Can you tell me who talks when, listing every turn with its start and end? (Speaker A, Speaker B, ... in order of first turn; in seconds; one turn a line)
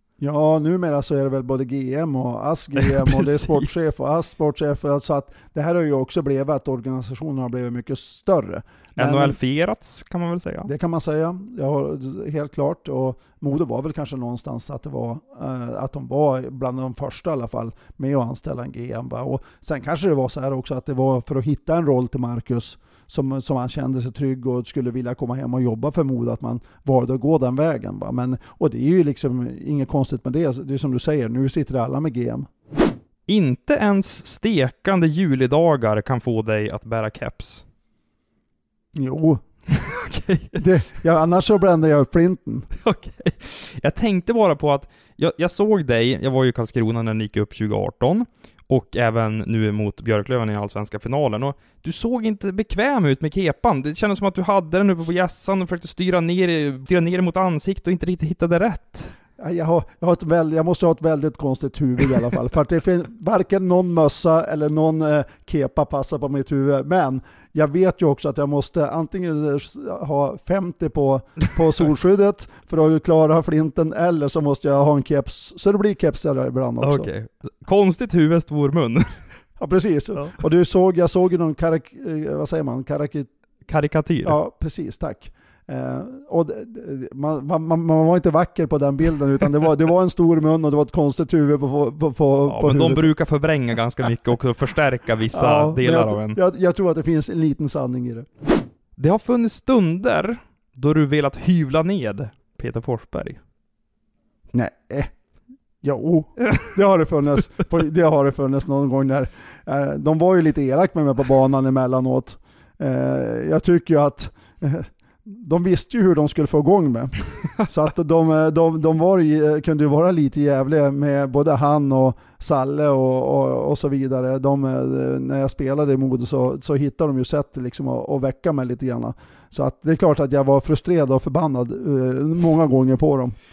Speaker A: 0.2-9.4
Speaker B: 2.8-3.8
Speaker B: 9.0-10.7
Speaker A: 10.7-32.5
Speaker B: 33.3-37.6
Speaker A: 38.9-39.4
Speaker B: 39.7-40.6
Speaker A: 40.5-42.7
Speaker B: 42.8-59.1
Speaker A: 59.4-77.1
Speaker B: 76.8-79.2
Speaker A: 79.6-83.3
Speaker B: 83.7-84.4
Speaker A: 84.2-93.1
Speaker B: 92.4-96.4
Speaker A: 95.3-98.3
Speaker B: 99.0-103.4
Speaker A: 104.5-105.1
Speaker A: 105.8-133.3